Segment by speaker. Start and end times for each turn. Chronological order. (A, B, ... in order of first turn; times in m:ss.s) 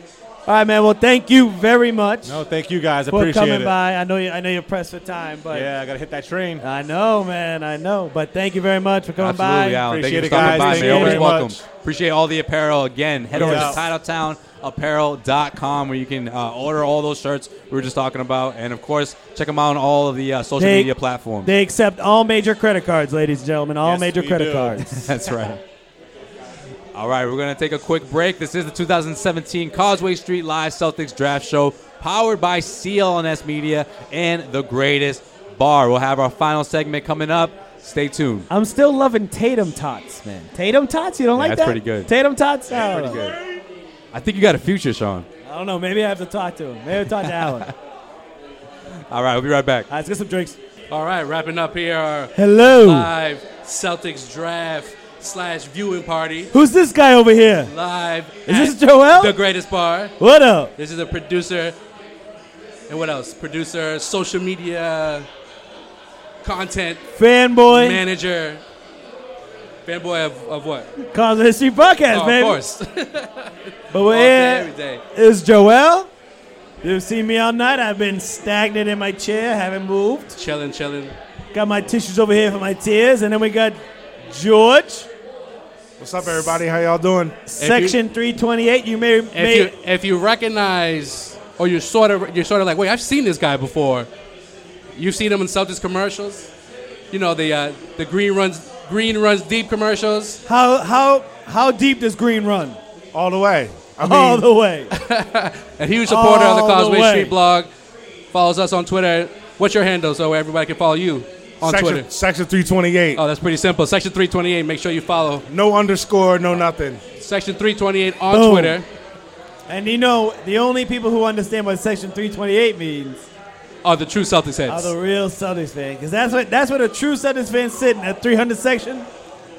0:00.5-0:02.4 A
0:02.3-0:03.7 B
0:03.1-0:05.7 A
0:05.5-0:06.6 B
0:06.6-0:11.3 A
0:09.2-0:21.5 C
0:09.8-0:11.6 B
0:13.3-0:13.8 B
0:13.4-0:13.8 A
0:20.6-0:20.9 A
0:21.4-0:25.1 A
0:23.8-0:24.8 B
0:24.8-0:25.6 C
0:26.9-0:38.5 C
0:38.5-0:43.2 A
0:41.4-0:42.1 C
0:42.7-0:43.4 C
0:44.1-0:45.3 C
0:45.4-0:47.7 A
0:47.2-0:47.7 C
0:49.1-0:49.9 C
0:49.9-0:50.6 A
0:50.9-0:56.5 D
0:52.4-0:53.1 A
0:56.5-0:57.7 A
0:57.7-1:00.2 D
0:58.5-0:59.4 A
1:00.2-1:00.7 A
1:00.8-1:01.8 D
1:02.9-1:05.3 D
1:06.4-1:07.0 D
1:07.2-1:08.0 A
1:07.7-1:08.6 D
1:09.8-1:10.9 D
1:11.1-1:12.6 A
1:12.1-1:13.5 D
1:13.9-1:16.1 A
1:14.1-1:15.0 D
1:16.8-1:20.3 A
1:20.3-1:21.2 D
1:21.5-1:25.1 A
1:26.0-1:27.4 E
1:26.2-1:26.6 A
1:27.5-1:29.7 A
1:27.6-1:28.0 D
1:29.3-1:34.1 D
1:35.0-1:36.5 D
1:37.1-1:40.4 D
1:40.5-1:42.8 A
1:43.1-1:44.5 E
1:44.0-1:44.9 A
1:44.9-1:47.7 D
1:46.1-1:47.4 A
1:48.3-1:52.1 D
1:51.6-1:53.2 E
1:53.2-1:55.4 D
1:55.5-1:57.0 E
1:57.2-1:58.9 D
1:58.3-1:58.8 A
1:59.7-2:03.3 A
2:03.8-2:05.0 D
2:04.7-2:09.1 A